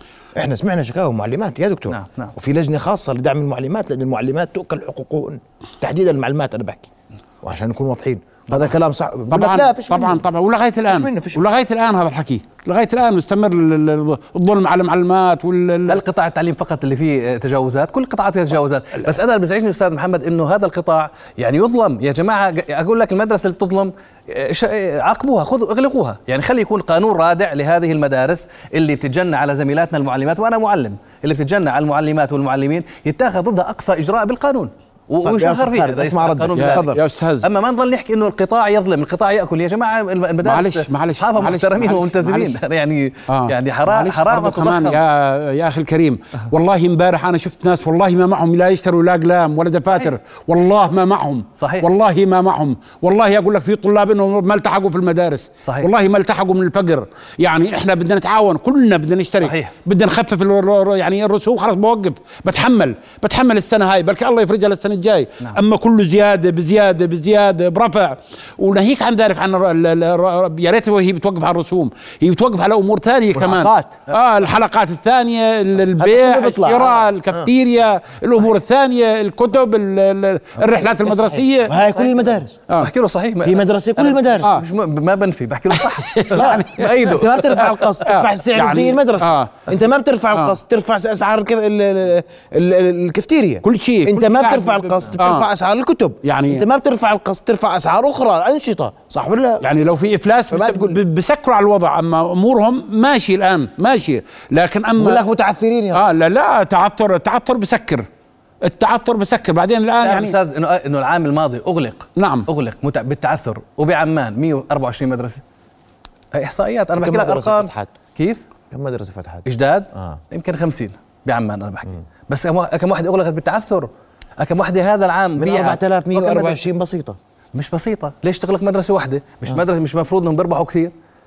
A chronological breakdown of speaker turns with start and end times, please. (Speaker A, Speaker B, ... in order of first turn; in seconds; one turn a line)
Speaker A: 0.3-6.9
Speaker B: 1.9-2.3
Speaker A: 7.4-10.2
Speaker C: 9.3-16.0
Speaker A: 10.9-11.4
Speaker B: 15.9-45.0
Speaker A: 35.2-37.0
Speaker C: 36.5-37.5
Speaker C: 40.4-42.6
Speaker C: 43.3-81.7
Speaker B: 51.6-51.9
Speaker B: 55.6-55.9
Speaker B: 59.4-59.7
Speaker A: 73.3-74.0
Speaker A: 76.0-77.5
Speaker A: 81.1-82.6
Speaker B: 82.8-87.8
Speaker A: 83.4-84.5
Speaker C: 85.7-89.6
Speaker A: 86.3-99.6
Speaker C: 93.6-95.5
Speaker C: 96.2-96.6
Speaker C: 99.6-105.2
Speaker A: 100.5-101.0
Speaker A: 105.0-106.0
Speaker C: 105.9-108.0
Speaker C: 108.6-110.3
Speaker B: 110.0-115.4
Speaker C: 112.2-112.5
Speaker B: 116.3-118.4
Speaker A: 117.0-117.9
Speaker A: 118.7-120.2
Speaker B: 119.4-126.6
Speaker A: 125.3-127.2
Speaker B: 127.5-130.9